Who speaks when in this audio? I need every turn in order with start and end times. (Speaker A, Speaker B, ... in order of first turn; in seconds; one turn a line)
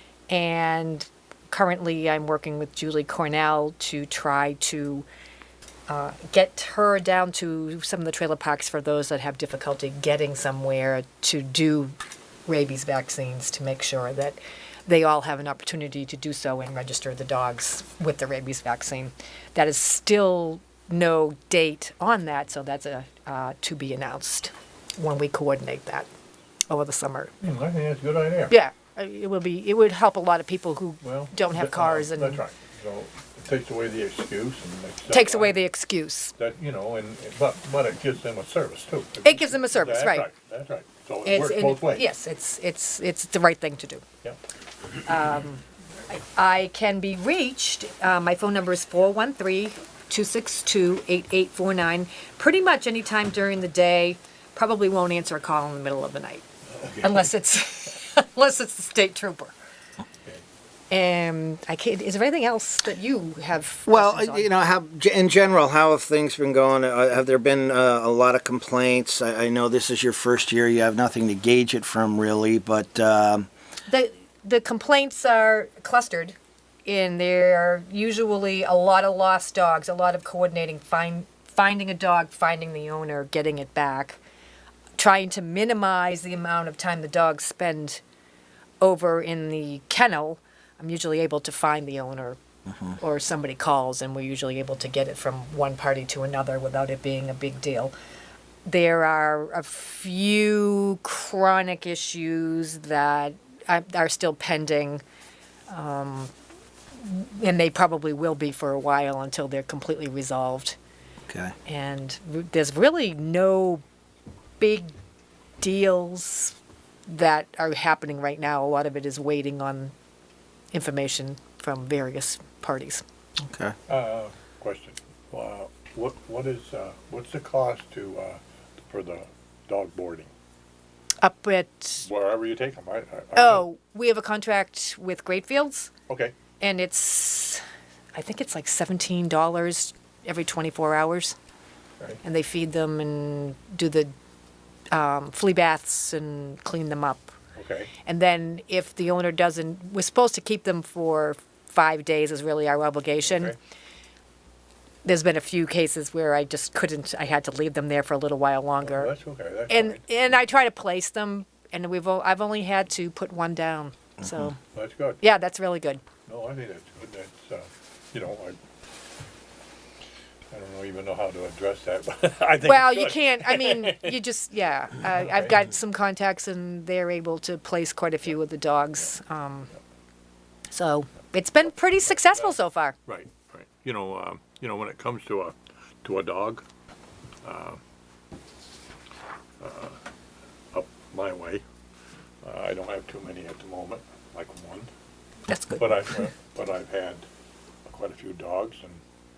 Speaker A: 0.3-5.0
Speaker A: 5.9-11.9
Speaker A: 12.4-26.1
Speaker A: 26.7-27.3
Speaker B: 27.4-28.5
Speaker A: 28.5-32.4
Speaker B: 31.0-35.6
Speaker A: 35.1-36.3
Speaker B: 36.4-42.0
Speaker A: 39.2-40.3
Speaker A: 41.2-44.0
Speaker A: 45.0-56.4
Speaker B: 56.8-57.3
Speaker A: 57.0-59.5
Speaker A: 60.9-64.5
Speaker C: 63.9-73.5
Speaker A: 73.9-84.2
Speaker A: 85.0-88.0
Speaker A: 88.8-97.9
Speaker A: 98.7-105.0
Speaker A: 105.7-106.3
Speaker A: 107.0-110.8
Speaker C: 111.3-111.5
Speaker A: 111.7-113.8
Speaker A: 114.6-114.9
Speaker A: 115.6-119.9
Speaker A: 120.7-123.0
Speaker C: 123.4-123.7
Speaker B: 123.9-130.3
Speaker A: 131.2-132.1
Speaker B: 132.0-133.6
Speaker A: 133.3-135.9
Speaker B: 136.1-136.3
Speaker A: 136.6-137.6
Speaker A: 138.1-141.3
Speaker A: 142.2-144.1
Speaker A: 144.9-147.3
Speaker B: 147.6-147.9
Speaker A: 148.0-153.6
Speaker B: 153.2-153.6
Speaker A: 155.0-159.1
Speaker B: 158.8-160.0
Speaker A: 159.7-164.6
Speaker B: 164.7-165.2
Speaker A: 165.2-166.0
Speaker B: 166.3-168.6
Speaker B: 170.5-174.2
Speaker A: 172.6-179.7
Speaker B: 175.1-175.5
Speaker A: 180.7-182.9
Speaker B: 182.2-182.5
Speaker B: 183.1-186.6
Speaker B: 187.4-187.8
Speaker B: 189.6-190.0
Speaker B: 190.7-191.6
Speaker B: 192.4-194.9
Speaker A: 195.5-196.3
Speaker B: 195.8-197.3
Speaker B: 197.9-199.0